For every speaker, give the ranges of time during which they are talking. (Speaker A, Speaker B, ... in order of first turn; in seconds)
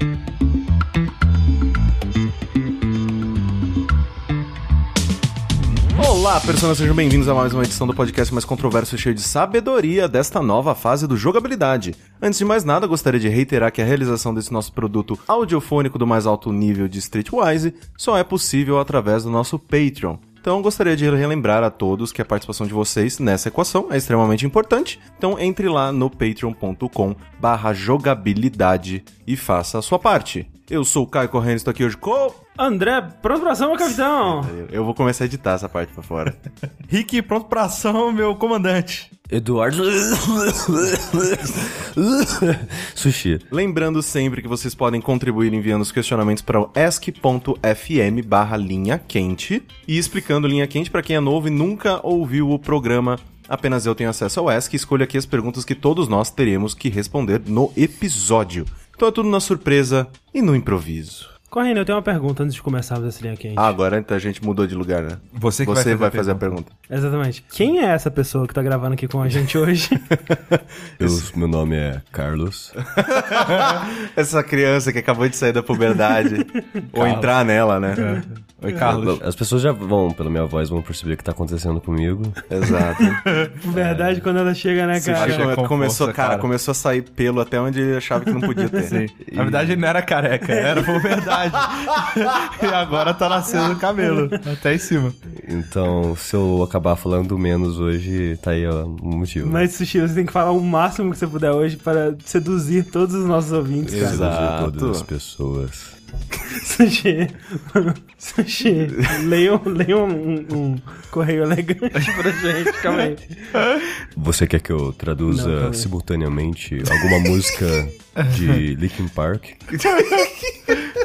Speaker A: 5.9-32.4, 34.2-36.4, 43.5-61.3, 63.6-66.7, 72.9-78.2, 82.5-83.2, 85.0-89.0, 103.9-105.1
Speaker B: 32.6-34.5, 61.5-63.8, 66.9-70.3, 83.6-85.5, 88.6-88.9, 90.5-91.3, 94.0-94.3, 99.4-104.3, 106.3-113.6, 115.3-115.9
Speaker C: 36.9-39.1, 65.3-66.6, 73.4-73.8, 76.9-77.3, 77.9-79.2, 83.3-83.6, 85.0-86.5, 88.9-95.2, 113.5-114.0, 118.2-118.6, 119.8-120.3
Speaker D: 39.3-43.5, 71.0-72.8, 78.8-82.4, 83.7-84.2, 89.2-89.8, 95.3-99.7, 103.9-106.0, 114.2-119.7